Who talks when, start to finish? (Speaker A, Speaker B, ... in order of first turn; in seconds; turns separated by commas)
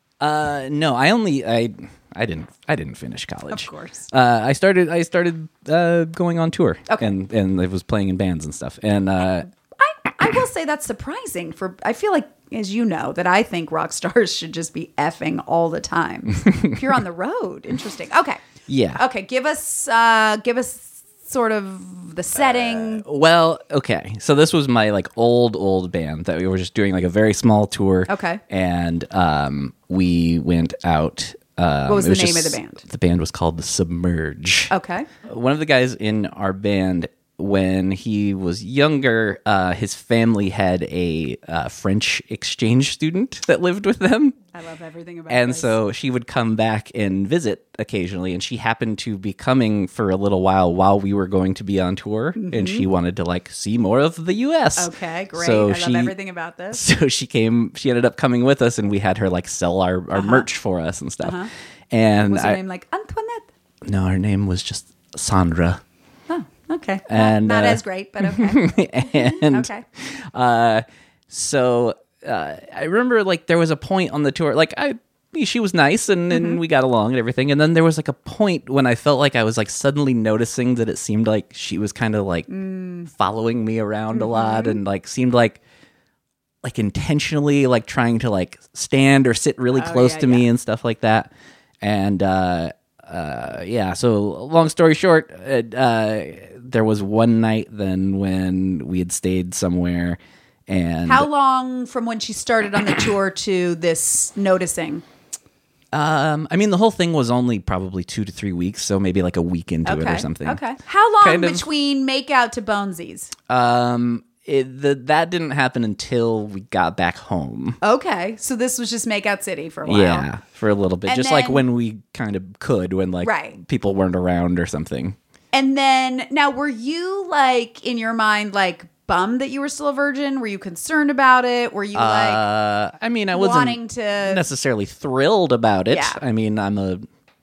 Speaker A: 0.2-9.5, Speaker B: 3.5-4.1, Speaker B: 9.8-18.4, Speaker A: 16.4-16.8, Speaker A: 18.7-19.0, Speaker B: 18.9-23.0, Speaker A: 22.4-34.7, Speaker B: 28.1-28.4, Speaker B: 31.9-32.8, Speaker B: 34.7-35.1, Speaker A: 35.2-44.4, Speaker B: 44.5-45.7, Speaker A: 45.3-56.1, Speaker B: 52.4-52.9, Speaker B: 54.8-56.8, Speaker A: 56.7-62.6, Speaker B: 60.1-60.4, Speaker B: 61.2-61.5, Speaker B: 62.3-63.5, Speaker A: 63.8-65.8, Speaker B: 66.3-68.8, Speaker A: 67.1-82.5, Speaker B: 69.4-69.8, Speaker B: 76.3-76.6, Speaker B: 82.5-83.1, Speaker A: 83.0-85.6, Speaker B: 84.1-84.8, Speaker A: 86.6-91.3, Speaker B: 89.7-90.5, Speaker A: 91.8-101.3, Speaker B: 101.0-105.0, Speaker A: 105.9-110.6, Speaker B: 109.8-113.3, Speaker A: 111.2-111.6, Speaker A: 113.5-117.8, Speaker B: 117.8-120.3, Speaker A: 119.8-125.2, Speaker B: 121.1-121.6, Speaker B: 123.2-123.6, Speaker B: 125.5-132.4, Speaker A: 131.9-137.0, Speaker B: 133.3-134.4, Speaker B: 135.9-136.2